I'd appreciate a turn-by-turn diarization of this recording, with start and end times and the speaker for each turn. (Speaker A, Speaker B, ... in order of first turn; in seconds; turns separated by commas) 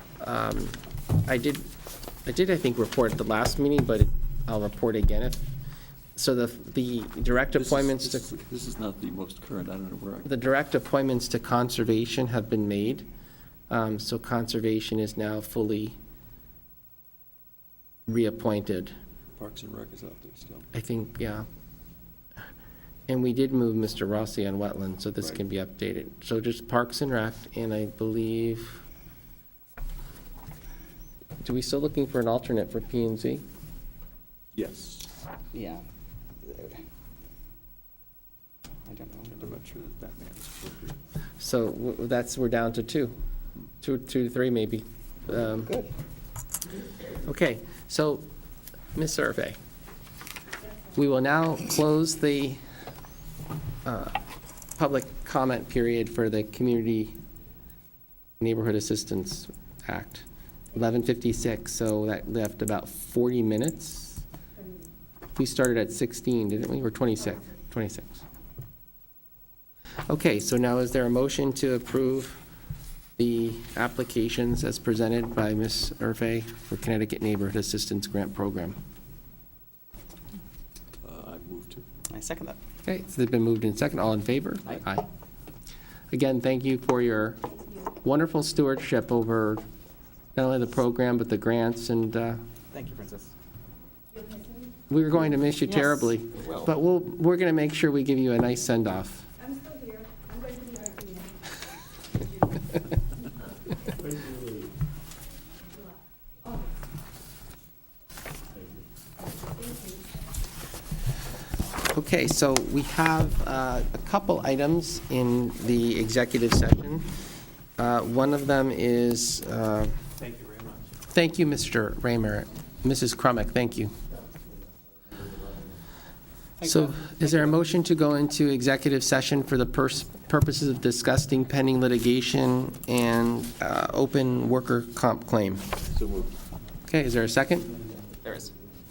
Speaker A: 0.2-1.7, Speaker A: 2.2-5.5, Speaker A: 6.2-8.2, Speaker B: 7.5-10.3, Speaker A: 10.2-13.1, Speaker A: 13.7-15.9, Speaker A: 18.1-18.9, Speaker B: 19.4-20.7, Speaker A: 20.7-21.4, Speaker A: 23.1-28.8, Speaker A: 31.4-33.4, Speaker B: 34.5-35.1, Speaker C: 35.5-35.8, Speaker C: 36.4-36.8, Speaker C: 38.9-39.4, Speaker B: 39.3-41.0, Speaker A: 41.4-43.1, Speaker A: 43.8-45.7, Speaker C: 45.3-45.9, Speaker A: 47.2-48.2, Speaker A: 48.9-49.6, Speaker A: 50.9-52.6, Speaker A: 53.8-54.2, Speaker A: 54.8-57.1, Speaker A: 58.4-64.2, Speaker A: 65.3-68.2, Speaker A: 70.1-72.4, Speaker A: 73.2-78.8, Speaker B: 81.0-81.8, Speaker C: 82.1-82.6, Speaker A: 82.8-85.1, Speaker A: 86.1-89.6, Speaker A: 90.3-92.4, Speaker C: 92.7-93.3, Speaker D: 94.2-94.5, Speaker A: 94.9-99.2, Speaker C: 95.6-96.7, Speaker D: 99.4-101.3, Speaker A: 111.9-117.1, Speaker A: 117.8-119.9, Speaker B: 120.2-120.8, Speaker A: 121.1-123.9, Speaker C: 126.6-127.5, Speaker A: 126.6-135.6, Speaker B: 135.9-136.3, Speaker A: 136.9-137.7, Speaker C: 138.2-138.6